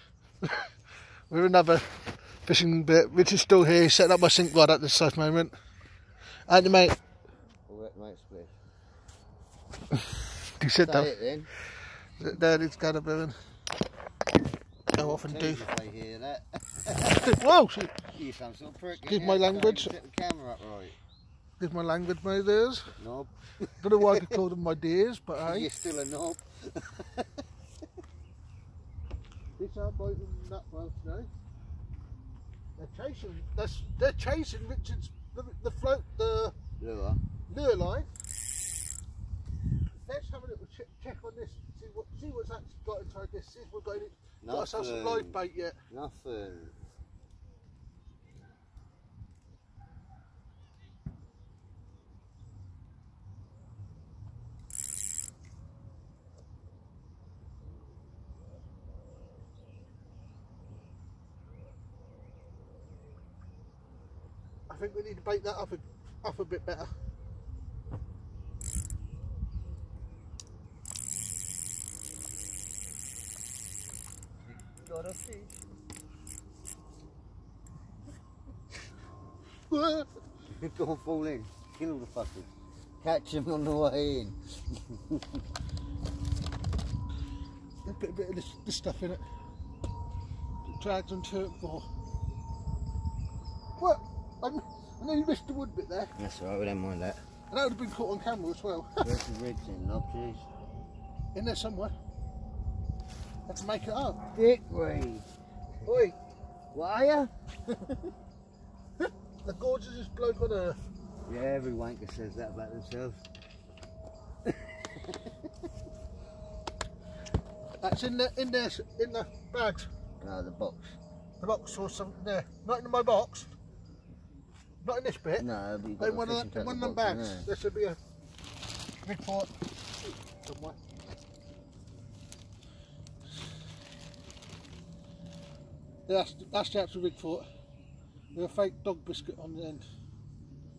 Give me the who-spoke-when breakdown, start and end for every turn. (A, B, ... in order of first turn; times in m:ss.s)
0:00.4-0:00.7 A
0:01.3-0:05.5 A
0:06.5-0:07.0 A
0:07.7-0:08.6 B
0:10.6-0:11.1 A
0:10.8-0:11.5 B
0:11.7-0:13.4 A
0:14.9-0:15.6 A
0:14.9-0:17.4 B
0:17.2-0:18.0 A
0:18.0-0:21.0 B
0:19.0-0:19.9 A
0:21.6-0:23.0 A
0:23.0-0:24.4 B
0:23.8-0:25.7 A
0:25.4-0:27.4 B
0:29.6-0:31.3 A
0:32.8-0:36.6 A
0:36.8-0:37.2 B
0:37.5-0:38.1 A
0:40.0-0:45.8 A
0:44.4-0:46.8 B
1:04.7-1:06.9 A
1:14.4-1:15.6 B
1:19.7-1:20.1 A
1:20.5-1:25.4 B
1:27.8-1:29.2 A
1:30.6-1:31.9 A
1:33.8-1:36.1 A
1:36.2-1:37.2 B
1:37.5-1:39.1 A
1:39.0-1:40.5 B
1:41.3-1:41.9 A
1:43.5-1:44.2 A
1:44.3-1:45.3 B
1:45.8-1:46.2 A
1:46.7-1:47.3 B
1:49.4-1:50.8 A
1:51.3-1:53.2 B
1:54.4-1:55.7 B
1:57.8-1:59.9 A
2:00.2-2:01.0 B
2:01.4-2:03.5 A
2:04.8-2:08.0 A
2:05.4-2:07.5 B
2:09.0-2:09.5 A
2:10.4-2:10.8 A
2:16.1-2:17.4 A
2:18.3-2:19.9 A